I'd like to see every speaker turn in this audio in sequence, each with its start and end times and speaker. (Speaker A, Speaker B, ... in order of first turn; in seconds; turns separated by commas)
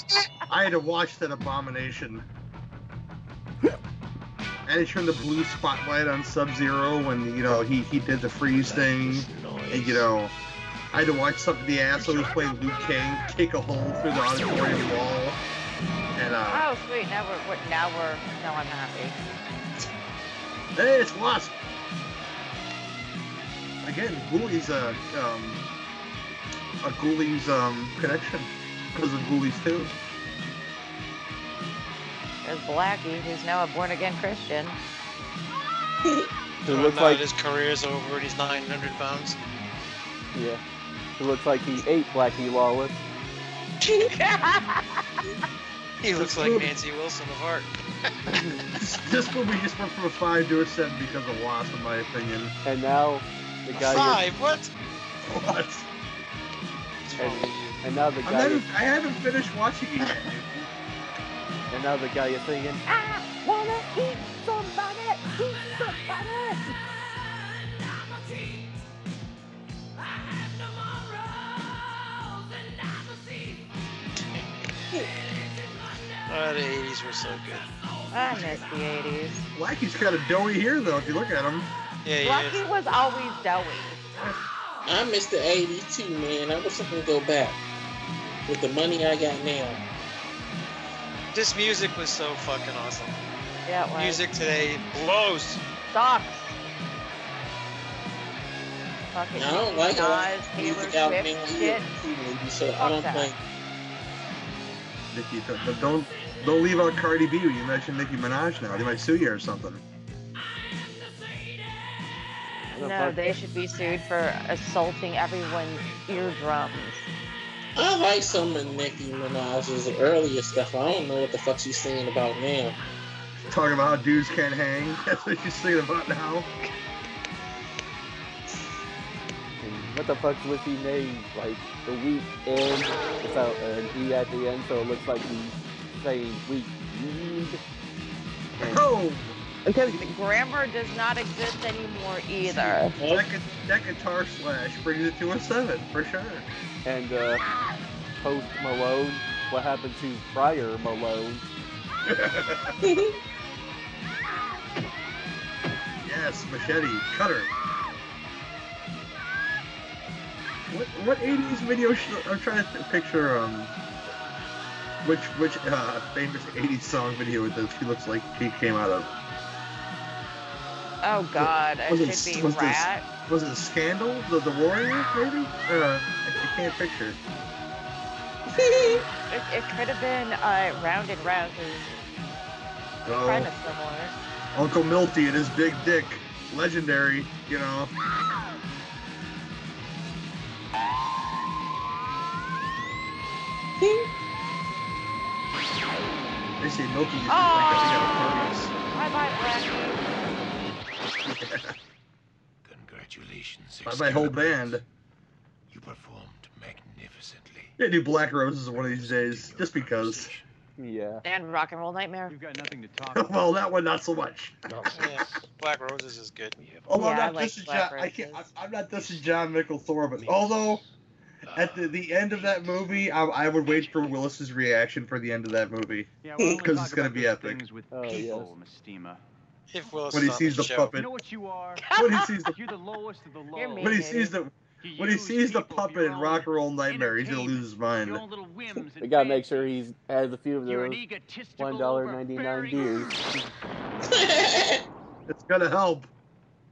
Speaker A: 0.5-2.2, Speaker A: 4.7-10.3, Speaker B: 8.4-10.1, Speaker A: 10.9-15.4, Speaker B: 12.0-12.9, Speaker A: 16.1-16.7, Speaker C: 16.4-19.2, Speaker A: 20.8-21.6, Speaker A: 23.8-25.6, Speaker A: 26.8-29.9, Speaker C: 32.4-34.8, Speaker D: 36.7-37.2, Speaker E: 36.7-39.4, Speaker D: 40.3-40.6, Speaker D: 41.2-43.0, Speaker E: 43.9-44.1, Speaker E: 46.0-47.7, Speaker A: 46.1-46.7, Speaker A: 48.7-52.5, Speaker D: 52.6-54.2, Speaker E: 53.7-54.7, Speaker A: 55.2-55.9, Speaker E: 57.0-57.8, Speaker D: 57.2-58.7, Speaker A: 58.2-60.4, Speaker D: 61.7-62.8, Speaker F: 62.9-66.7, Speaker B: 68.2-68.6, Speaker B: 72.7-73.6, Speaker E: 76.3-77.7, Speaker B: 77.8-78.6, Speaker C: 78.1-79.5, Speaker A: 79.5-81.7, Speaker E: 82.0-82.6, Speaker C: 82.2-84.0, Speaker G: 84.9-87.6, Speaker G: 88.5-89.8, Speaker E: 91.3-93.2, Speaker C: 93.7-94.2, Speaker E: 94.0-95.6, Speaker C: 95.9-96.6, Speaker C: 99.1-101.9, Speaker G: 99.3-103.4, Speaker C: 102.7-103.3, Speaker A: 105.1-109.8, Speaker C: 112.7-117.1, Speaker D: 112.8-113.2, Speaker G: 117.8-122.8, Speaker A: 123.5-126.5, Speaker D: 129.6-137.6, Speaker A: 138.6-140.0, Speaker C: 139.7-143.0, Speaker A: 142.4-146.5, Speaker G: 143.0-143.3, Speaker D: 146.8-147.4, Speaker D: 148.2-151.5, Speaker A: 152.1-152.8, Speaker G: 152.8-153.2, Speaker A: 156.0-157.5, Speaker A: 160.7-163.7, Speaker A: 165.0-169.1, Speaker C: 171.0-173.1, Speaker A: 171.4-177.2, Speaker G: 178.6-179.0, Speaker C: 178.6-182.0, Speaker A: 183.1-183.5, Speaker C: 183.2-184.2, Speaker A: 184.5-187.9, Speaker G: 193.8-194.1, Speaker A: 196.6-198.7, Speaker C: 197.3-200.0, Speaker A: 201.3-201.7, Speaker B: 202.6-204.8, Speaker A: 203.8-204.8, Speaker B: 205.7-207.8, Speaker A: 207.8-210.3, Speaker B: 208.7-210.4, Speaker D: 210.8-211.2, Speaker C: 211.2-212.3, Speaker H: 212.3-213.5, Speaker A: 213.1-215.0, Speaker B: 214.7-215.5, Speaker E: 214.9-216.6, Speaker B: 216.6-217.0, Speaker A: 216.9-220.8, Speaker C: 216.9-218.5, Speaker B: 218.9-219.5, Speaker B: 220.2-224.2, Speaker A: 221.5-227.6, Speaker H: 226.2-229.2, Speaker G: 226.4-226.6, Speaker D: 227.9-228.5, Speaker E: 229.7-231.0, Speaker A: 230.1-231.1, Speaker H: 230.9-231.9, Speaker C: 231.8-232.5, Speaker A: 231.9-232.6, Speaker H: 232.5-234.2, Speaker C: 233.5-234.3, Speaker A: 233.8-238.2, Speaker H: 234.8-239.8, Speaker D: 239.0-241.0, Speaker H: 240.7-243.3, Speaker D: 241.6-243.3, Speaker G: 244.1-244.9, Speaker A: 245.3-246.1